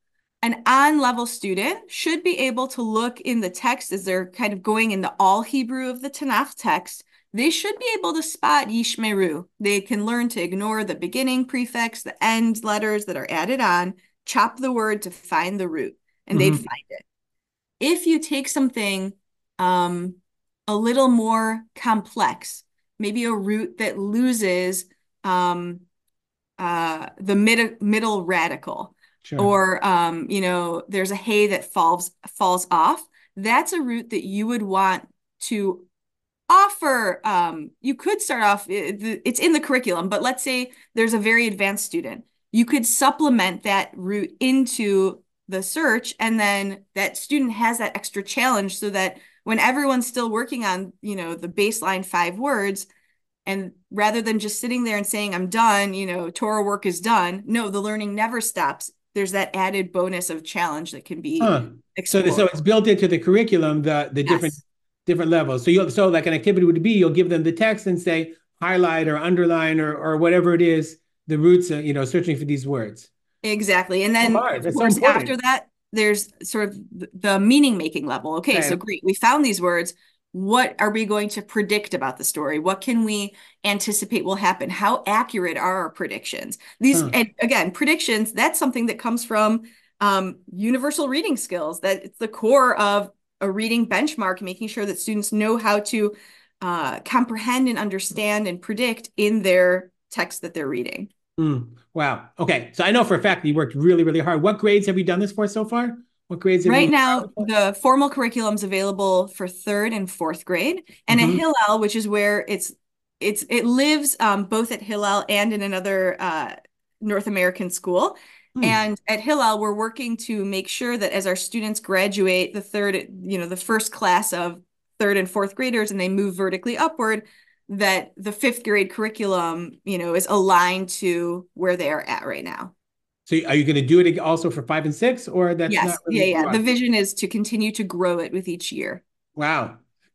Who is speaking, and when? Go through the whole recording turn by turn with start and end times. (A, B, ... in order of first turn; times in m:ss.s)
0:00.4-0:17.0 A
0:16.3-0:16.6 B
0:17.8-0:25.8 A
0:26.6-0:35.9 A
0:29.2-0:29.5 B
0:36.5-0:52.9 A
0:53.4-1:02.5 A
1:01.4-1:13.1 B
1:04.2-1:04.6 A
1:13.4-1:41.1 A
1:14.2-1:15.3 B
1:18.5-1:18.8 B
1:41.4-1:47.5 B
1:46.6-2:12.7 A
1:51.1-1:51.4 B
2:13.3-2:16.6 B
2:15.7-2:19.0 A
2:19.4-2:19.8 B